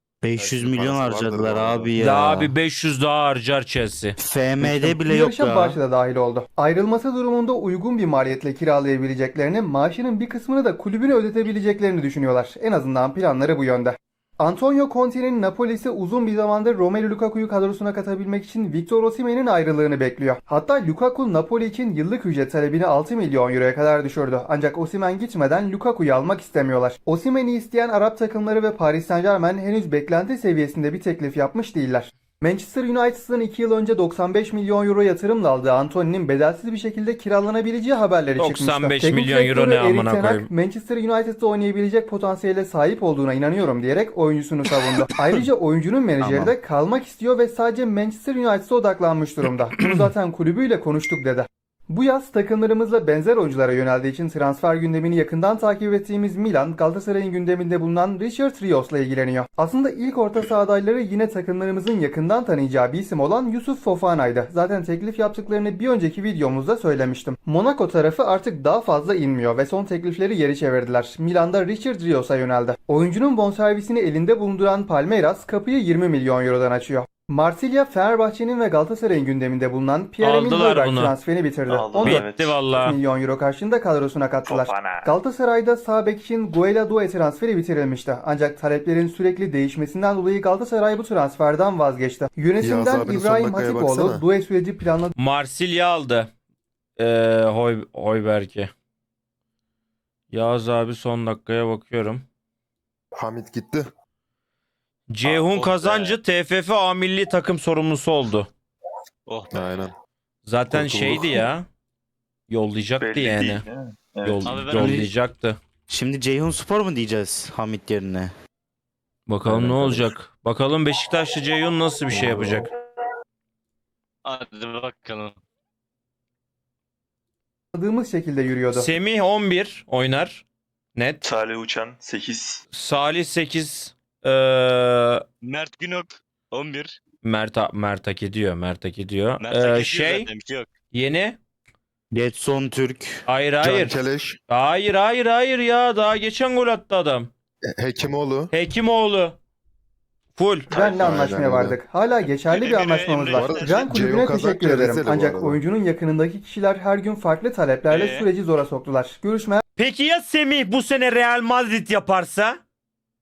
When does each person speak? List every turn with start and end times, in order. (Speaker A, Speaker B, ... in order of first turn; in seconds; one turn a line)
Speaker A: 0.2-2.5
Speaker B: 0.3-1.9
Speaker C: 2.0-4.1
Speaker A: 4.2-5.8
Speaker D: 4.6-95.1
Speaker C: 38.4-40.5
Speaker A: 46.2-46.5
Speaker C: 80.2-81.1
Speaker E: 81.7-82.7
Speaker C: 82.0-83.0
Speaker E: 84.5-85.1
Speaker B: 92.6-94.2
Speaker C: 95.2-96.3
Speaker C: 97.0-98.7
Speaker C: 100.3-102.2
Speaker B: 103.1-103.9
Speaker C: 105.1-108.5
Speaker F: 105.2-106.2
Speaker B: 109.5-109.9
Speaker C: 110.5-111.7
Speaker B: 110.7-111.5
Speaker C: 112.5-113.6
Speaker E: 113.0-114.5
Speaker C: 114.2-115.6
Speaker F: 114.4-115.1
Speaker A: 114.7-115.1
Speaker A: 115.9-118.3
Speaker C: 119.3-122.7
Speaker B: 119.5-120.0
Speaker A: 119.5-120.0
Speaker B: 122.1-122.6
Speaker F: 124.2-125.3
Speaker D: 127.7-128.9
Speaker C: 128.7-131.2
Speaker E: 131.2-132.6
Speaker C: 132.7-135.2
Speaker F: 135.4-136.9
Speaker C: 137.2-140.3
Speaker F: 139.4-140.7
Speaker C: 140.9-141.4
Speaker A: 142.1-143.2
Speaker C: 143.3-144.0
Speaker B: 143.6-144.4
Speaker C: 144.5-147.3
Speaker B: 147.7-148.5
Speaker C: 148.5-149.4
Speaker C: 150.3-150.7
Speaker E: 150.7-151.2
Speaker D: 150.7-159.6
Speaker B: 151.0-151.8
Speaker F: 152.4-154.0
Speaker B: 153.3-155.6
Speaker F: 157.9-158.3
Speaker C: 159.8-162.6